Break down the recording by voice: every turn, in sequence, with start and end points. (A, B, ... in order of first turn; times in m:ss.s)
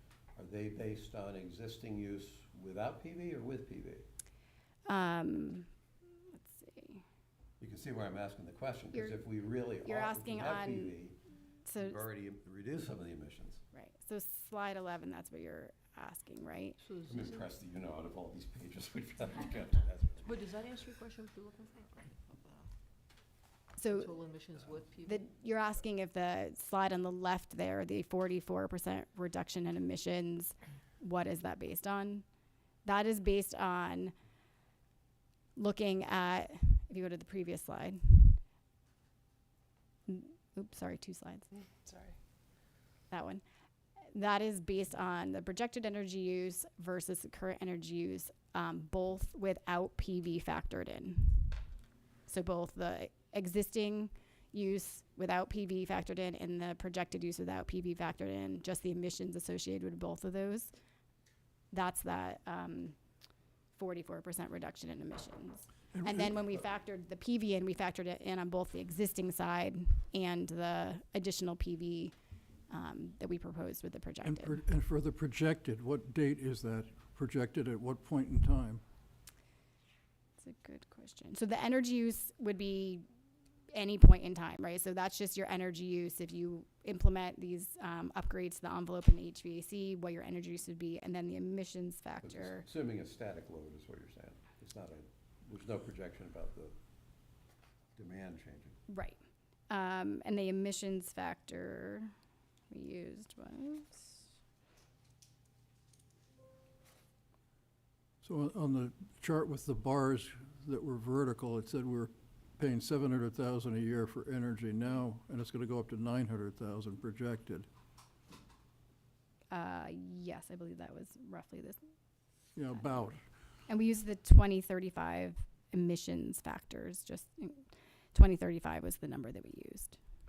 0:00.3-0:04.0 A
0:04.9-0:05.7 B
0:06.4-0:07.0 B
0:07.6-0:11.2 A
0:09.8-0:11.0 B
0:11.6-0:12.0 B
0:11.7-0:13.6 A
0:13.7-0:16.8 B
0:16.8-0:17.5 C
0:17.1-0:20.4 A
0:20.2-0:22.7 C
0:23.8-0:24.2 B
0:23.9-0:25.2 C
0:25.0-0:32.2 B
0:32.8-0:34.1 B
0:35.6-0:38.4 B
0:40.1-0:41.5 B
0:43.1-0:43.4 B
0:44.1-0:51.6 B
0:52.3-1:00.7 B
1:01.7-1:02.9 B
1:03.8-1:12.1 B
1:05.9-1:06.4 D
1:12.7-1:14.6 B
1:14.2-1:18.8 D
1:20.4-1:23.0 B
1:23.7-1:32.6 B
1:32.2-1:36.7 A
1:38.0-1:38.8 A
1:38.9-1:42.1 B
1:42.7-1:44.2 B
1:48.2-1:57.7 D
1:59.5-2:01.8 B
2:02.6-2:03.2 D
2:03.7-2:10.0 B